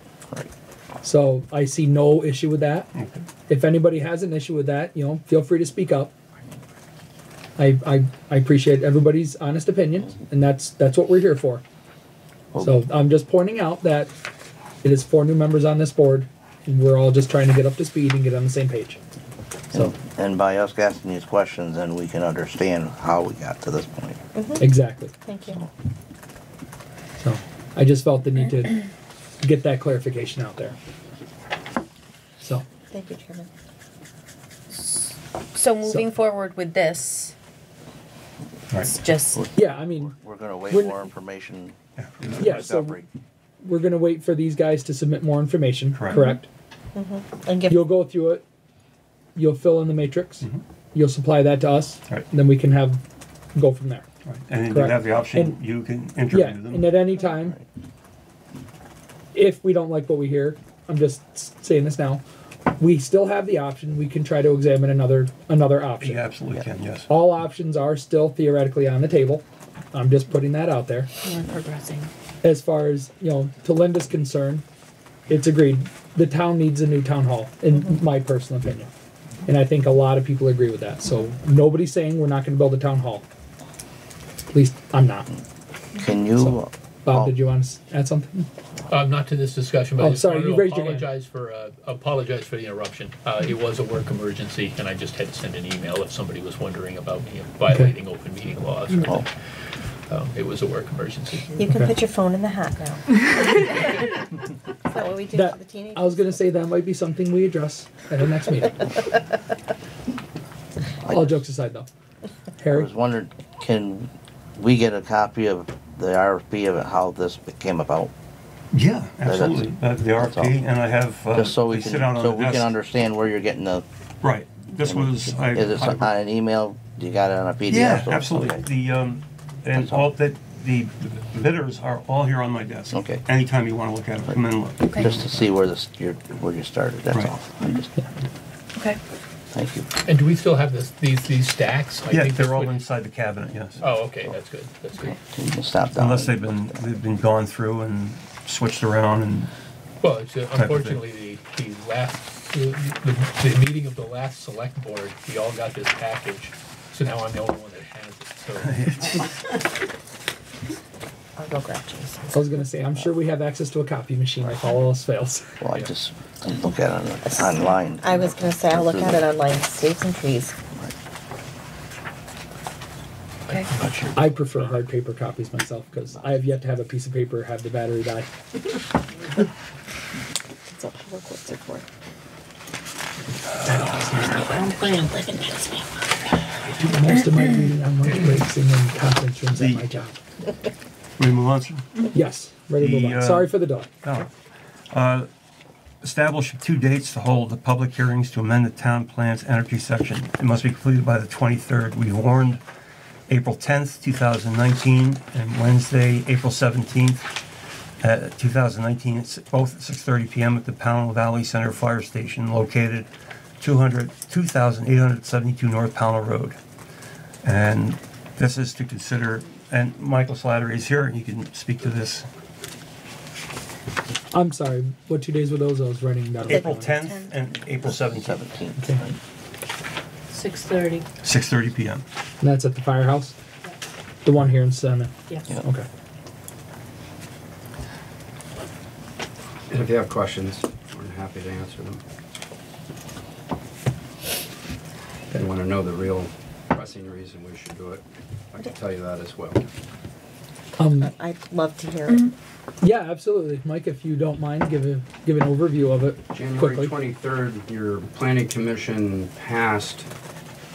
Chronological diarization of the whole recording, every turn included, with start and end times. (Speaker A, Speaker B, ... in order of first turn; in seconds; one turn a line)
Speaker A: 1.0-2.9
Speaker B: 2.9-3.2
Speaker A: 3.5-6.1
Speaker A: 7.6-11.6
Speaker A: 12.6-14.1
Speaker A: 14.8-19.0
Speaker C: 19.7-24.2
Speaker D: 24.3-25.6
Speaker A: 24.6-25.1
Speaker A: 27.2-28.8
Speaker A: 29.4-30.8
Speaker A: 32.4-32.6
Speaker D: 32.9-33.5
Speaker E: 34.7-37.3
Speaker B: 38.7-39.0
Speaker E: 38.8-39.4
Speaker C: 39.3-41.8
Speaker A: 39.5-40.1
Speaker A: 40.7-41.0
Speaker B: 42.0-42.5
Speaker C: 42.3-43.1
Speaker A: 42.4-43.0
Speaker A: 43.6-46.4
Speaker B: 45.9-46.2
Speaker D: 46.9-47.8
Speaker A: 47.7-48.4
Speaker A: 49.3-53.0
Speaker A: 53.5-54.0
Speaker B: 54.2-57.0
Speaker A: 54.7-55.6
Speaker A: 56.3-57.6
Speaker A: 59.3-62.2
Speaker A: 62.8-66.2
Speaker B: 66.0-67.1
Speaker A: 67.1-71.1
Speaker E: 71.2-72.1
Speaker A: 72.4-74.6
Speaker A: 75.3-78.9
Speaker A: 79.5-83.3
Speaker A: 84.4-85.3
Speaker C: 85.9-87.4
Speaker A: 86.4-88.5
Speaker F: 88.9-99.3
Speaker A: 90.0-91.1
Speaker A: 97.7-97.9
Speaker F: 100.1-101.5
Speaker D: 101.5-104.0
Speaker D: 104.8-106.4
Speaker A: 105.3-109.0
Speaker C: 111.0-111.4
Speaker A: 111.1-111.9
Speaker A: 112.6-112.9
Speaker C: 112.7-118.1
Speaker B: 118.7-122.7
Speaker C: 119.2-120.5
Speaker C: 121.3-123.8
Speaker B: 124.2-126.1
Speaker C: 124.8-128.6
Speaker B: 127.7-135.5
Speaker C: 129.7-130.1
Speaker C: 132.9-133.2
Speaker E: 134.8-135.1
Speaker C: 134.9-137.9
Speaker E: 138.7-139.0
Speaker C: 139.5-139.9
Speaker F: 140.0-142.8
Speaker B: 142.1-143.9
Speaker F: 143.8-145.2
Speaker C: 145.3-146.9
Speaker B: 145.9-149.5
Speaker F: 150.0-158.7
Speaker B: 150.5-151.0
Speaker B: 158.6-159.3
Speaker D: 161.4-162.5
Speaker A: 162.3-165.5
Speaker C: 165.6-169.2
Speaker D: 167.2-170.5
Speaker F: 173.5-174.7
Speaker A: 174.2-178.3
Speaker D: 180.7-181.8
Speaker E: 184.2-185.6
Speaker D: 184.4-185.6
Speaker A: 186.8-190.2
Speaker B: 189.5-189.8
Speaker B: 191.2-192.0
Speaker A: 192.1-193.9
Speaker B: 192.8-194.3
Speaker B: 194.9-195.3
Speaker B: 196.0-202.6
Speaker B: 203.3-207.3
Speaker B: 208.0-216.6
Speaker B: 217.4-222.3
Speaker A: 224.3-226.9
Speaker B: 226.4-228.4
Speaker C: 227.8-229.2
Speaker E: 230.3-231.1
Speaker B: 231.2-232.0
Speaker A: 232.4-233.3
Speaker A: 234.2-235.8
Speaker G: 239.7-242.0
Speaker G: 245.3-249.6
Speaker A: 250.8-251.1
Speaker D: 250.9-252.2
Speaker A: 252.8-256.9
Speaker G: 256.3-260.1